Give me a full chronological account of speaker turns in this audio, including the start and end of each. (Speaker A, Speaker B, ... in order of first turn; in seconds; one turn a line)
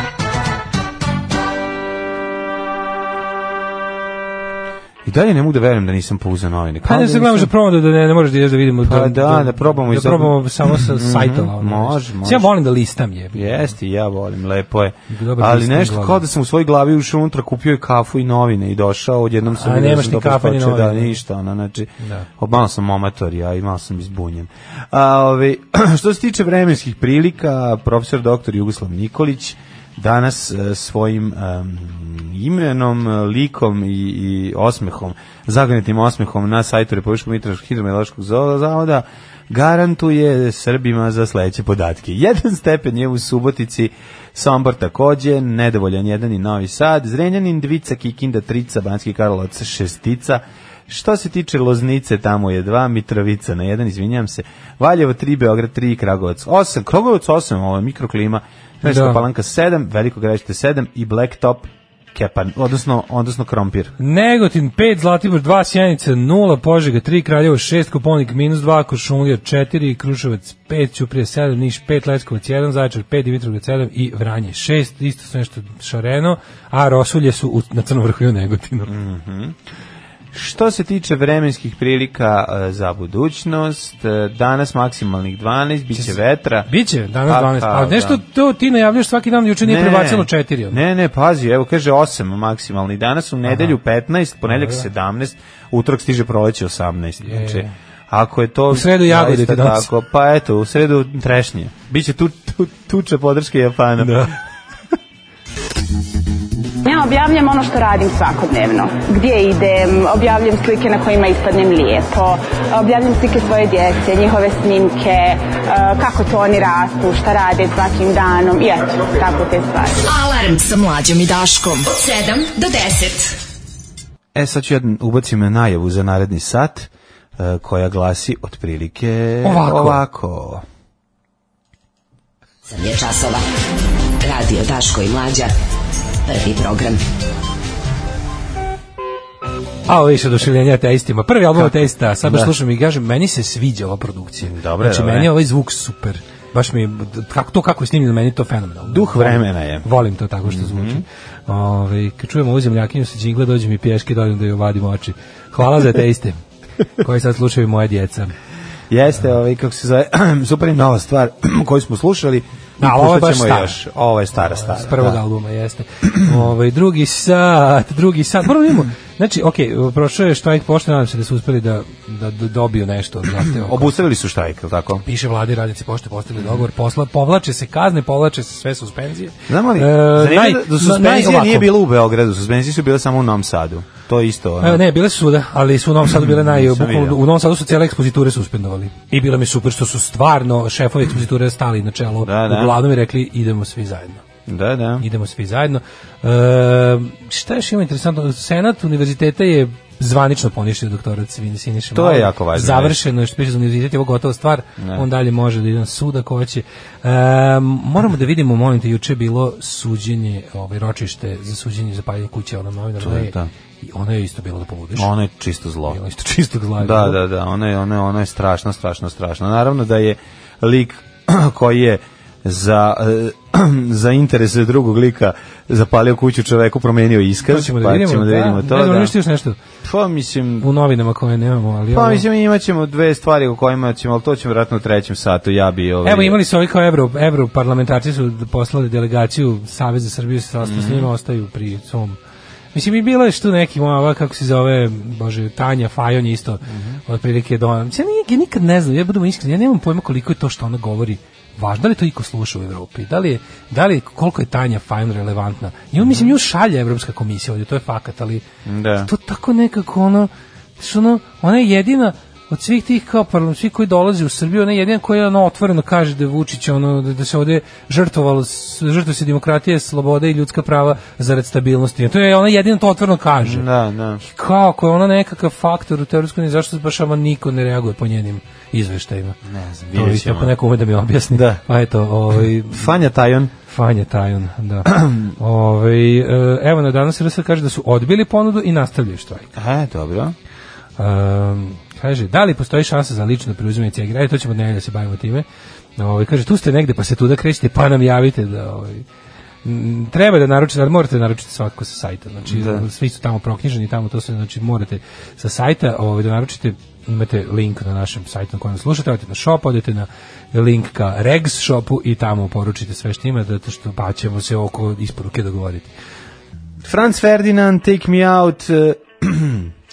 Speaker A: 5.0-7.5
Speaker B: 6.8-13.7
Speaker A: 8.8-12.5
Speaker A: 13.3-63.9
Speaker B: 15.1-16.2
Speaker B: 19.5-21.2
Speaker B: 22.0-22.3
Speaker B: 58.8-59.2
Speaker B: 64.0-78.9
Speaker A: 78.9-79.6
Speaker A: 80.3-86.7
Speaker B: 86.0-90.8
Speaker A: 87.3-88.2
Speaker A: 89.6-104.3
Speaker B: 93.5-93.7
Speaker B: 94.5-94.9
Speaker B: 97.2-97.7
Speaker B: 98.7-99.9
Speaker B: 104.0-104.4
Speaker C: 106.8-120.0
Speaker D: 120.1-123.4
Speaker A: 124.3-130.6
Speaker B: 129.4-130.0
Speaker E: 132.7-133.4
Speaker E: 134.2-135.5
Speaker E: 136.2-137.0
Speaker B: 139.9-156.4
Speaker A: 141.6-142.5
Speaker A: 144.4-145.3
Speaker A: 148.9-149.8
Speaker A: 150.5-151.0
Speaker B: 157.0-158.3
Speaker A: 158.9-165.2
Speaker B: 162.8-163.8
Speaker B: 164.4-174.0
Speaker A: 173.4-175.1
Speaker B: 175.0-181.8
Speaker A: 179.5-184.8
Speaker B: 184.6-194.2
Speaker A: 186.1-187.2
Speaker A: 192.2-192.8
Speaker A: 194.5-195.1
Speaker B: 195.0-215.1
Speaker A: 201.9-203.0
Speaker A: 204.8-205.1
Speaker A: 213.0-213.5
Speaker A: 215.0-216.0
Speaker B: 215.9-217.2
Speaker A: 216.8-229.2
Speaker B: 227.4-229.6
Speaker A: 229.8-230.7
Speaker B: 230.6-232.2
Speaker A: 231.9-236.4
Speaker B: 236.0-242.2
Speaker A: 240.6-241.1
Speaker B: 242.7-258.4
Speaker A: 246.7-247.0
Speaker A: 256.0-256.3
Speaker A: 258.6-259.1
Speaker B: 259.0-273.7
Speaker A: 273.4-274.2
Speaker B: 274.2-279.4
Speaker A: 279.4-280.5
Speaker B: 279.9-282.9
Speaker A: 281.3-281.6
Speaker A: 282.7-283.5
Speaker B: 283.6-289.5
Speaker A: 284.9-285.3
Speaker A: 289.6-290.4
Speaker B: 291.0-295.5
Speaker B: 296.0-299.1
Speaker B: 299.6-315.9
Speaker A: 302.4-302.9
Speaker A: 316.8-319.7